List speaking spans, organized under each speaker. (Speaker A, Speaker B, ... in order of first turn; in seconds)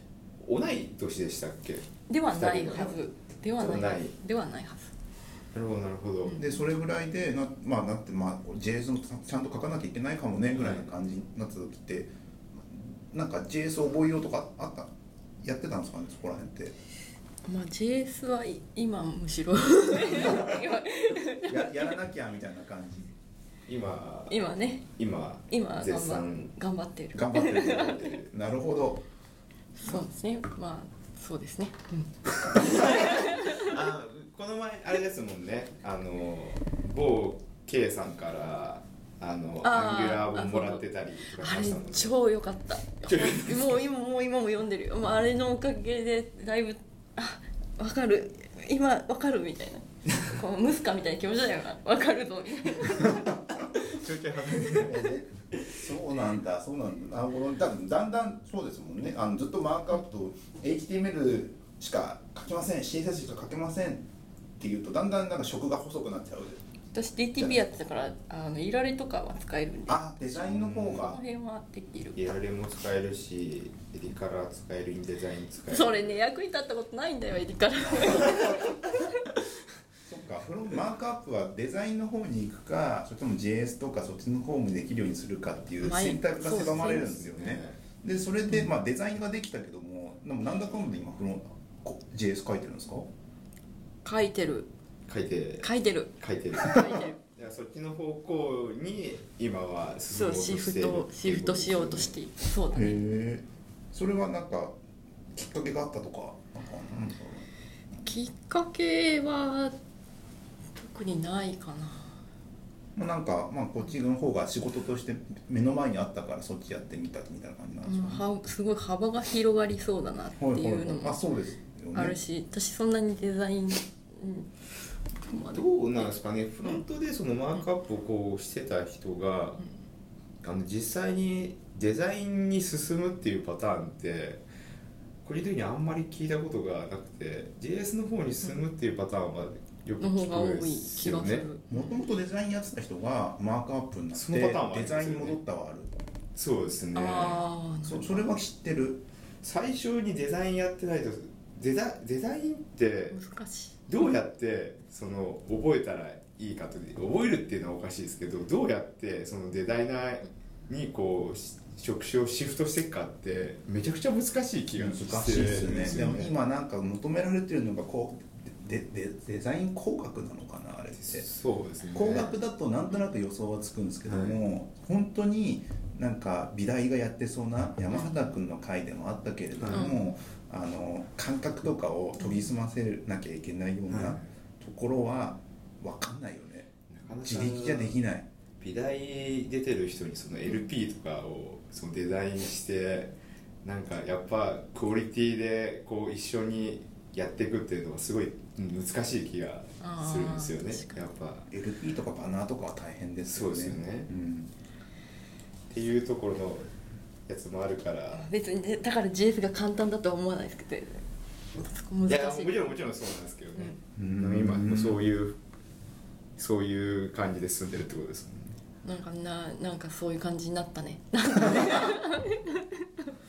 Speaker A: 0.4-3.0, 3.6-4.1, 5.5-6.4, 10.5-10.9, 23.7-24.4, 25.0-26.5, 27.4-28.3, 32.7-42.2, 43.0-43.8, 53.7-55.1, 70.4-71.2, 72.2-76.2, 86.5-87.8, 95.1-102.2, 125.5-129.6, 130.4-134.4, 135.2-141.5, 144.1-145.4, 146.4-147.4, 149.4-153.2, 153.9-166.3, 171.0-172.3, 174.1-174.4, 179.5-179.9, 183.9-184.3, 186.9-188.0, 188.6-193.1, 193.7-201.5, 203.2-204.1, 205.7-206.7, 207.3-208.3, 212.1-215.4, 216.4-218.5
Speaker B: 2.1-4.9, 6.3-6.7, 17.4-21.9, 24.3-24.9, 25.5-28.2, 29.8-33.7, 39.6-40.9, 41.4-53.3, 66.9-72.3, 75.7-79.2, 85.8-87.2, 94.0-94.7, 95.6-97.2, 100.1-103.0, 108.0-109.8, 110.8-112.2, 117.8-121.2, 121.9-124.5, 125.2-126.8, 140.0-142.0, 146.9-148.3, 153.1-154.1, 165.9-166.2, 179.7-180.0, 199.8-201.1, 208.1-211.0, 211.6-212.8, 218.8-222.7
Speaker C: 6.4-14.9, 15.4-16.7, 20.1-20.6, 21.5-23.1, 27.1-29.0, 54.8-64.1, 64.6-66.6, 69.9-71.2, 78.1-78.7, 80.1-93.1, 102.7-104.8, 105.3-107.5, 113.0-118.2, 120.4-122.2, 141.7-145.9, 147.8-149.0, 164.8-171.3, 171.9-186.7, 187.2-188.3, 201.5-204.5, 214.0-215.0